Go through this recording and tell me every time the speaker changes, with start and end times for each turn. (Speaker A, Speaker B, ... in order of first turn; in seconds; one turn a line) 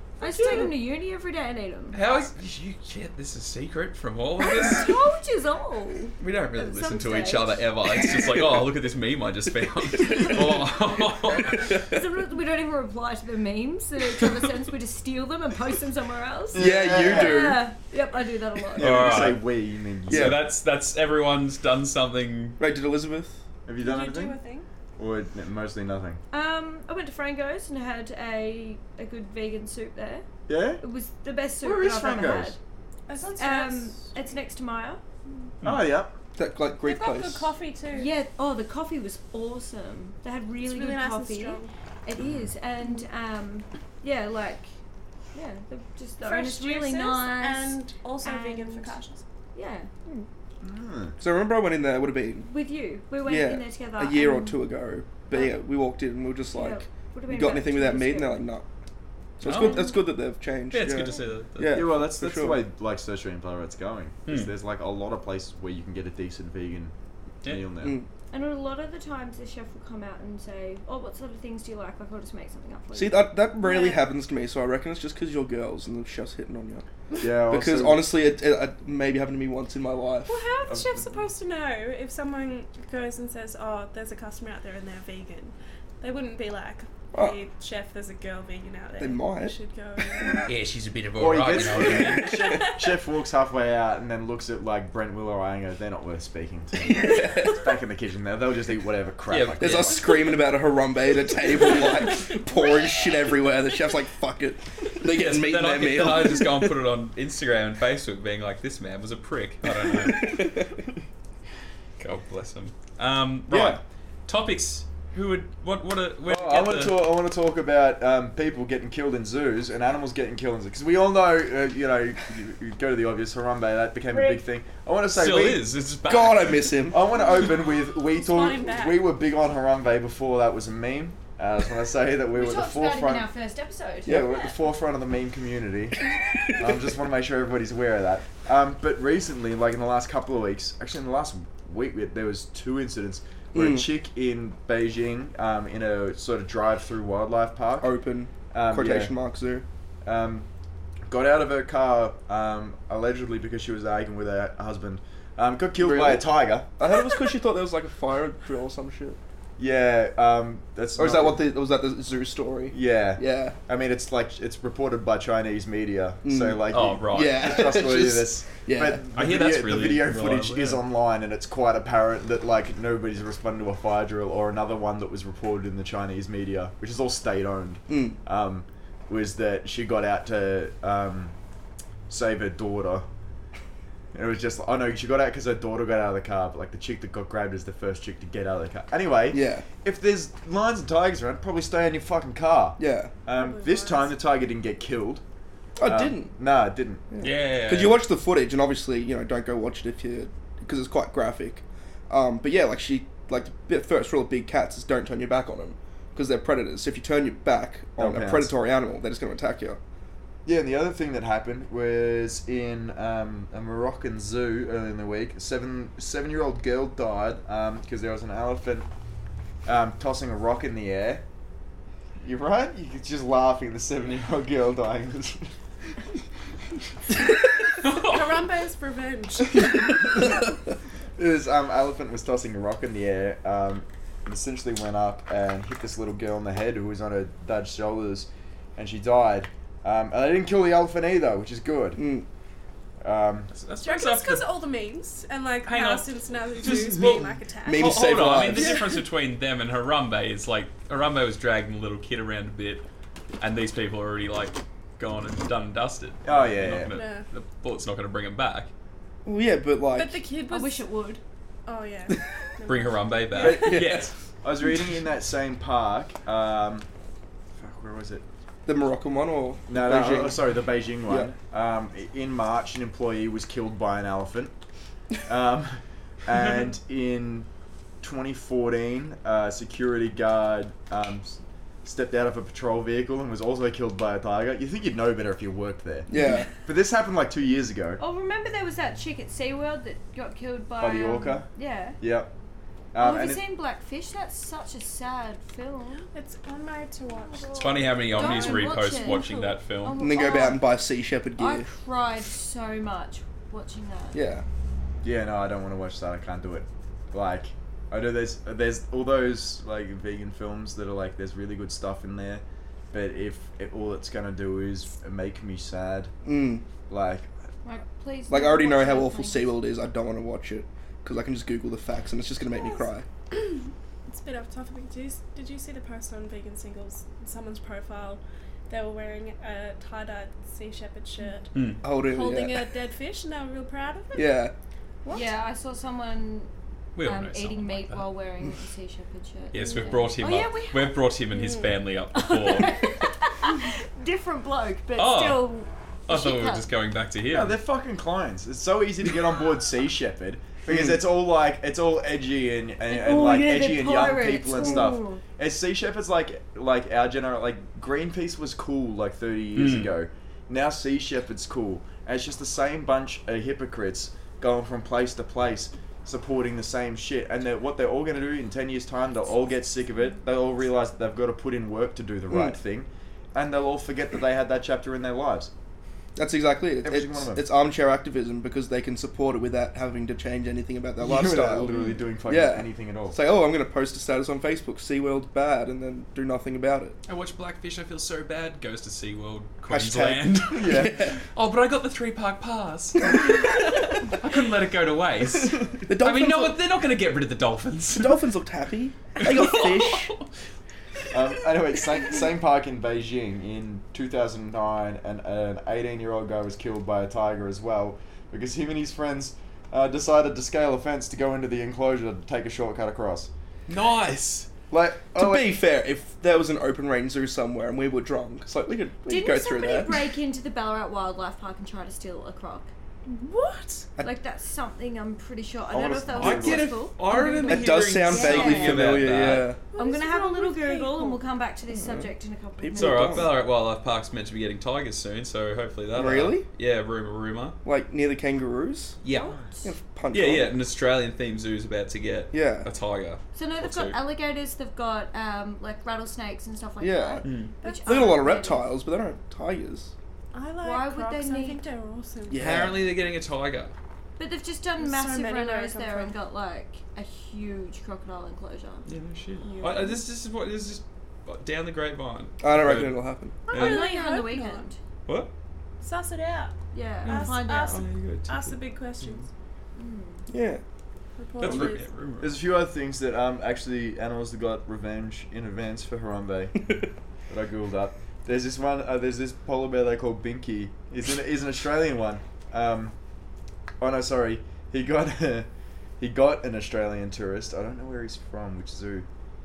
Speaker A: 0.2-2.0
Speaker B: 0.2-0.7
Speaker C: 0.4-0.7
Speaker C: 1.9-4.9
Speaker A: 4.4-8.2
Speaker C: 6.2-11.8
Speaker A: 11.8-19.1
Speaker D: 16.5-17.6
Speaker E: 16.5-17.6
Speaker D: 18.8-20.4
Speaker C: 18.8-19.5
Speaker C: 20.1-22.6
Speaker E: 20.1-20.5
Speaker E: 22.6-23.4
Speaker D: 23.7-24.4
Speaker B: 23.8-24.6
Speaker D: 25.0-26.2
Speaker A: 26.3-30.2
Speaker D: 30.5-30.8
Speaker A: 30.8-32.6
Speaker D: 31.6-32.5
Speaker B: 33.1-34.1
Speaker A: 33.4-35.0
Speaker D: 35.6-36.1
Speaker E: 36.4-37.5
Speaker B: 36.8-38.1
Speaker A: 37.9-44.7
Speaker B: 40.6-41.7
Speaker D: 42.2-42.5
Speaker A: 45.3-49.0
Speaker B: 46.2-49.2
Speaker A: 49.5-49.9
Speaker D: 50.6-51.1
Speaker E: 51.2-52.5
Speaker A: 52.4-54.6
Speaker E: 53.2-58.6
Speaker A: 55.3-55.6
Speaker A: 56.5-58.5
Speaker E: 59.4-62.6
Speaker C: 59.4-59.9
Speaker A: 59.4-60.0
Speaker C: 60.7-61.9
Speaker D: 61.7-66.9
Speaker C: 64.3-64.5
Speaker C: 67.4-67.7
Speaker D: 67.4-68.0
Speaker E: 67.8-68.1
Speaker A: 68.3-74.0
Speaker E: 72.9-76.8
Speaker D: 77.2-78.1
Speaker E: 77.5-80.4
Speaker B: 80.3-90.5
Speaker D: 80.7-81.1
Speaker E: 87.1-87.4
Speaker E: 89.0-89.6
Speaker C: 90.5-92.4
Speaker D: 91.2-100.0
Speaker E: 91.7-92.5
Speaker B: 92.1-92.8
Speaker E: 96.8-97.6
Speaker C: 99.3-100.2
Speaker E: 99.6-106.7
Speaker B: 101.7-102.5
Speaker C: 105.0-110.6
Speaker E: 109.9-110.8
Speaker C: 112.0-117.1
Speaker E: 113.5-113.8
Speaker D: 116.2-125.6
Speaker A: 124.1-124.4
Speaker C: 125.1-126.7
Speaker E: 126.1-127.0
Speaker D: 126.9-133.3
Speaker B: 128.0-129.0
Speaker A: 132.3-134.5
Speaker E: 134.1-134.4
Speaker D: 134.1-136.0
Speaker D: 136.6-147.9
Speaker E: 143.5-143.9
Speaker E: 147.8-149.6
Speaker D: 148.5-149.1
Speaker D: 150.0-150.5
Speaker D: 151.1-156.7
Speaker E: 155.8-159.2
Speaker D: 159.6-161.4
Speaker E: 161.0-163.6
Speaker D: 162.7-181.3
Speaker E: 166.2-169.0
Speaker C: 166.7-167.5
Speaker C: 169.1-170.8
Speaker E: 177.9-178.2
Speaker D: 182.1-183.1
Speaker D: 184.1-195.2
Speaker E: 189.3-189.7
Speaker E: 192.8-193.1
Speaker B: 193.3-194.1
Speaker E: 195.8-196.3
Speaker D: 195.8-197.0
Speaker E: 197.1-209.8
Speaker C: 197.2-198.0
Speaker D: 208.0-208.5
Speaker D: 210.4-218.9
Speaker D: 219.7-221.2
Speaker D: 222.2-225.5
Speaker C: 227.8-228.1
Speaker B: 227.9-230.1
Speaker D: 231.2-242.0
Speaker E: 241.9-242.2
Speaker D: 243.0-243.5
Speaker C: 243.5-244.5
Speaker B: 243.8-249.0
Speaker C: 245.7-246.1
Speaker C: 246.6-252.8
Speaker E: 247.6-248.9
Speaker C: 253.4-258.7
Speaker D: 256.2-256.9
Speaker B: 256.9-257.2
Speaker E: 259.2-260.2
Speaker B: 259.9-260.9
Speaker A: 260.5-261.2
Speaker B: 261.6-264.0
Speaker C: 262.6-264.1
Speaker E: 263.4-264.1
Speaker D: 264.4-266.9
Speaker D: 267.5-268.2
Speaker E: 268.6-270.4
Speaker D: 269.7-274.5
Speaker E: 271.0-271.3
Speaker D: 275.2-277.5
Speaker D: 278.0-286.1
Speaker E: 286.1-286.5
Speaker D: 286.6-288.0
Speaker A: 288.0-292.0
Speaker D: 290.8-291.5
Speaker D: 292.0-292.3
Speaker D: 292.9-293.4
Speaker A: 293.0-296.1
Speaker B: 296.1-298.8
Speaker A: 297.2-300.6
Speaker C: 297.5-300.1
Speaker E: 299.9-301.7
Speaker A: 301.4-304.2
Speaker E: 304.1-304.4
Speaker D: 305.0-316.1
Speaker E: 316.2-316.6
Speaker D: 316.9-317.3
Speaker A: 317.6-319.5
Speaker E: 318.3-323.1
Speaker B: 322.5-334.4
Speaker C: 331.5-331.8
Speaker E: 331.8-332.6
Speaker E: 334.1-334.5
Speaker A: 335.1-341.0
Speaker C: 336.9-338.1
Speaker C: 339.5-342.8
Speaker B: 339.6-340.1
Speaker B: 341.3-341.7
Speaker A: 342.2-346.7
Speaker C: 345.0-345.5
Speaker C: 346.1-347.6
Speaker D: 347.3-375.5
Speaker A: 352.9-355.2
Speaker C: 359.6-359.9
Speaker E: 372.3-372.6
Speaker E: 376.1-387.0
Speaker D: 376.8-377.4
Speaker D: 381.0-383.2
Speaker C: 387.1-398.2
Speaker E: 389.7-391.2
Speaker D: 390.5-391.1
Speaker E: 395.9-396.6
Speaker E: 397.9-400.1
Speaker C: 399.2-400.3
Speaker D: 401.1-413.3
Speaker C: 413.7-414.5
Speaker D: 414.7-415.6
Speaker E: 415.1-420.0
Speaker A: 419.1-422.7
Speaker B: 423.1-423.9
Speaker A: 424.0-429.0
Speaker D: 425.7-426.7
Speaker C: 426.1-429.5
Speaker B: 427.1-427.5
Speaker E: 427.4-429.6
Speaker B: 429.7-431.2
Speaker A: 429.8-433.3
Speaker E: 431.7-433.3
Speaker C: 432.7-437.6
Speaker E: 435.9-436.4
Speaker E: 437.6-439.0
Speaker C: 439.0-439.4
Speaker A: 439.1-439.7
Speaker E: 439.6-440.6
Speaker C: 440.1-444.0
Speaker E: 442.3-442.7
Speaker A: 443.3-448.7
Speaker E: 446.8-449.9
Speaker C: 447.2-447.5
Speaker B: 447.6-448.3
Speaker B: 450.3-452.8
Speaker A: 450.6-451.6
Speaker E: 452.3-452.8
Speaker C: 452.4-453.7
Speaker A: 454.2-458.8
Speaker B: 454.8-456.1
Speaker C: 458.9-463.0
Speaker B: 459.4-460.0
Speaker E: 462.4-463.4
Speaker B: 463.5-464.7
Speaker C: 463.5-463.9
Speaker A: 463.5-464.8
Speaker C: 465.1-465.3
Speaker B: 465.8-469.3
Speaker A: 466.7-467.8
Speaker C: 467.0-469.2
Speaker A: 469.8-470.3
Speaker E: 470.3-470.6
Speaker B: 471.2-471.9
Speaker C: 471.4-472.4
Speaker D: 471.4-482.9
Speaker D: 483.8-485.5
Speaker D: 486.0-489.1